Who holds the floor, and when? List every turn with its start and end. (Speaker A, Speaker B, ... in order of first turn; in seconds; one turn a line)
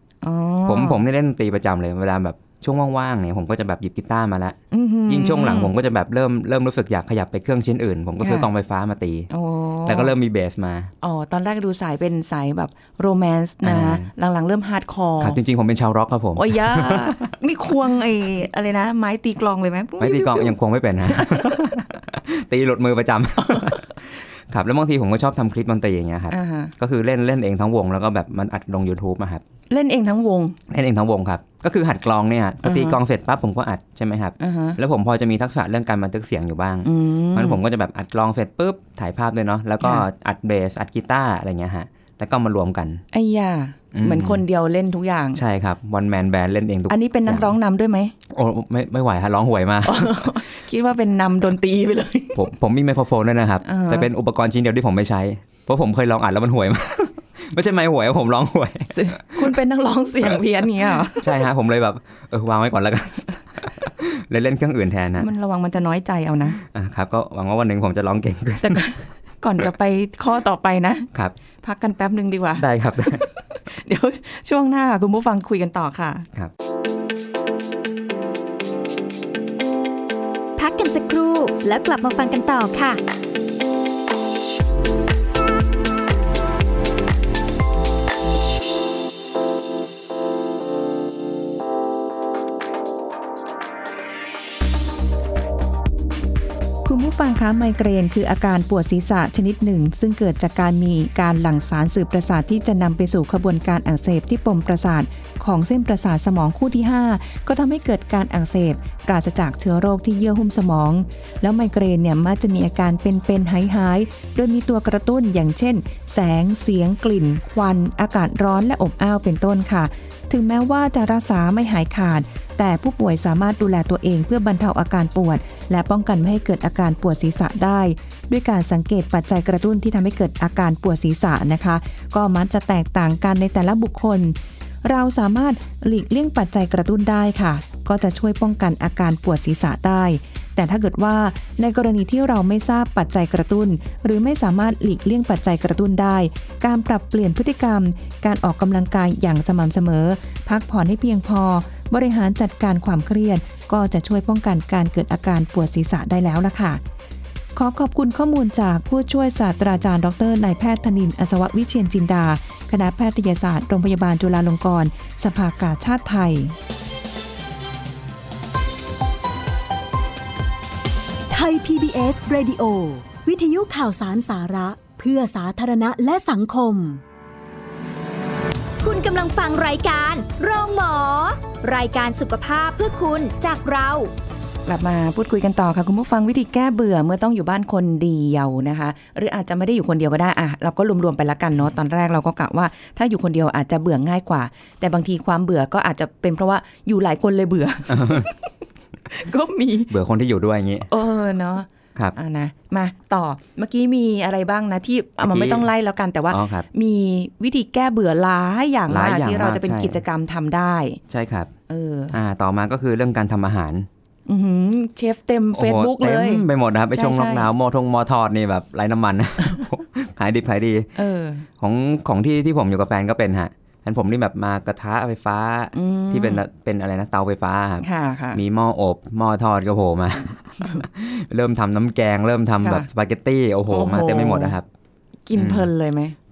Speaker A: 0.2-1.0
Speaker B: 0.7-9.3
Speaker A: 4.7-5.7
Speaker A: 8.2-8.5
Speaker A: 9.3-10.1
Speaker B: 9.8-10.9
Speaker A: 11.0-15.4
Speaker B: 13.6-14.1
Speaker B: 15.2-17.3
Speaker A: 16.4-20.5
Speaker B: 20.0-29.4
Speaker A: 21.1-21.6
Speaker A: 23.5-23.8
Speaker A: 26.3-26.7
Speaker A: 29.7-30.6
Speaker B: 30.7-43.0
Speaker A: 32.6-33.0
Speaker A: 34.4-34.8
Speaker A: 36.8-37.6
Speaker A: 43.1-45.4
Speaker B: 43.9-44.4
Speaker B: 45.3-47.5
Speaker A: 46.9-48.1
Speaker B: 48.3-50.3
Speaker A: 49.8-52.4
Speaker B: 52.3-59.5
Speaker A: 53.6-54.1
Speaker A: 58.9-61.4
Speaker B: 61.0-65.3
Speaker A: 65.2-66.6
Speaker B: 66.6-68.9
Speaker A: 68.6-71.1
Speaker A: 71.6-76.3
Speaker B: 72.6-73.2
Speaker C: 80.6-83.0
Speaker A: 96.8-156.8
Speaker A: 157.6-166.6
Speaker D: 171.3-177.0
Speaker C: 178.8-184.1
Speaker A: 184.7-198.5
Speaker B: 197.9-198.3
Speaker A: 199.1-199.9
Speaker B: 199.9-200.9
Speaker A: 200.9-211.0
Speaker B: 205.2-205.7
Speaker B: 206.3-206.7
Speaker B: 208.9-210.0
Speaker B: 211.1-211.5
Speaker A: 211.7-212.2
Speaker B: 212.1-213.9
Speaker A: 214.3-217.5
Speaker B: 215.5-220.9
Speaker A: 220.9-221.5
Speaker B: 221.6-234.7
Speaker A: 225.7-226.4
Speaker A: 227.8-228.4
Speaker A: 232.6-232.9
Speaker A: 233.7-234.6
Speaker A: 235.2-236.2
Speaker B: 235.3-235.7